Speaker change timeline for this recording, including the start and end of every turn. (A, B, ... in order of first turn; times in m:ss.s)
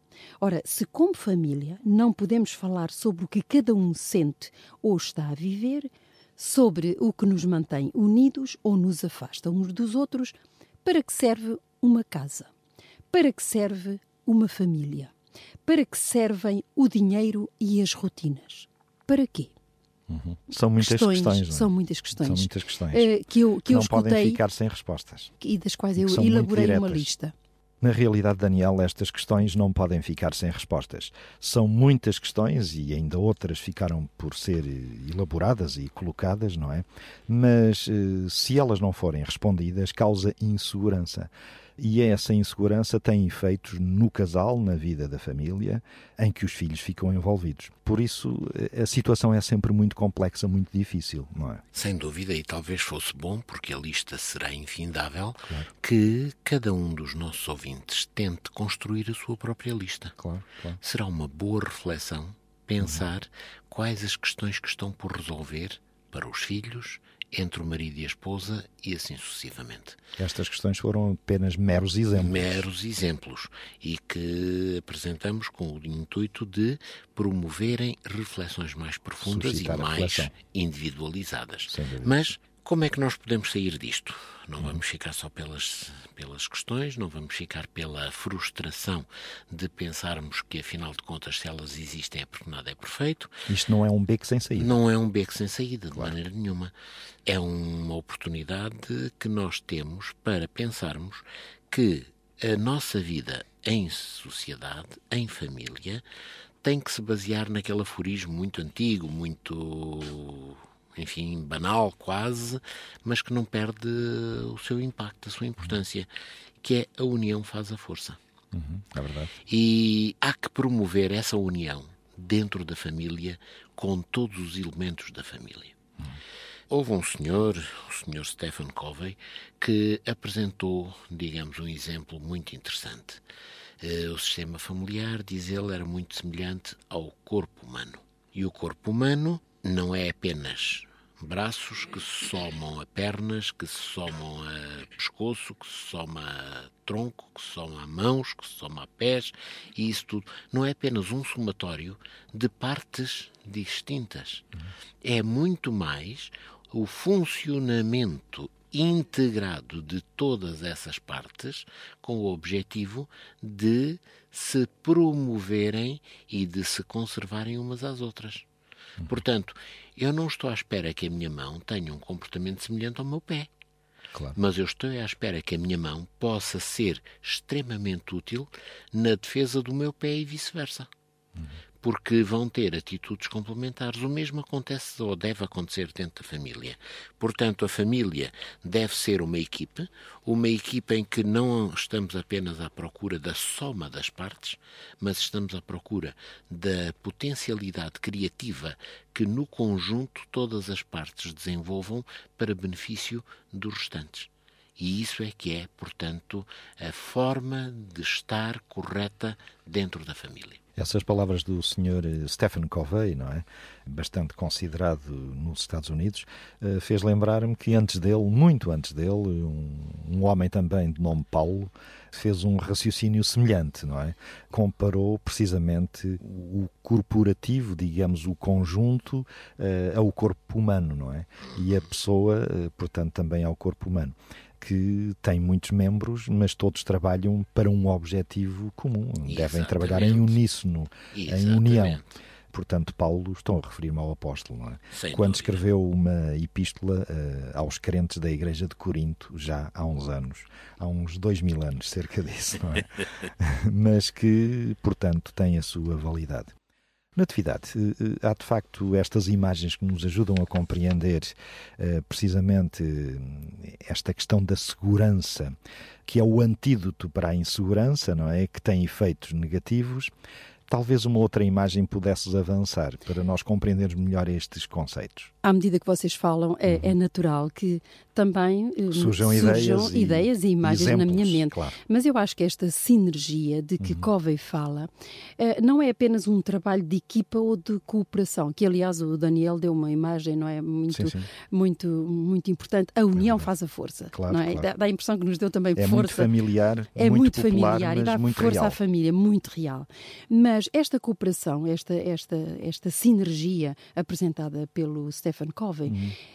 0:00.4-0:12.5 A
0:13.1-0:15.1 A
0:15.7-0:19.5 A
0:20.1-0:23.1 B
0:20.8-0:24.4 A
0:23.7-0:25.3 B
0:25.4-0:27.3 A
0:26.0-0:27.1 B
0:27.8-0:51.6 B
0:51.7-1:00.2 C
0:55.4-0:55.7 B
1:00.2-1:00.8 B
1:00.8-1:10.0 C
1:10.2-1:12.7 B
1:12.2-1:33.3 C
1:19.2-1:20.3 B
1:21.7-1:22.1 B
1:33.5-1:34.8 B
1:34.6-1:36.7 C
1:37.3-1:46.0 C
1:46.6-1:56.1 C
1:56.6-1:58.2 C
1:58.5-1:59.3 B
1:59.5-2:05.8 C
2:06.7-2:13.2 C
2:13.8-2:34.5 C
2:35.0-2:48.4 C
2:49.0-2:53.5 C
2:54.4-3:00.9 C
3:01.8-3:30.6 C
3:30.8-4:02.0 B
3:59.3-4:00.4 C
4:01.1-4:02.0 C
4:02.5-4:16.5 B
4:04.9-4:05.6 C
4:17.2-4:30.1 B
4:30.7-4:35.3 B
4:35.4-4:56.3 A
4:38.9-4:41.8 B
4:43.8-4:44.1 B
4:50.9-4:51.3 B
4:53.2-4:53.5 B
4:54.1-4:54.7 B
4:55.8-4:58.8 B
4:56.9-5:06.0 A
5:05.9-5:06.2 B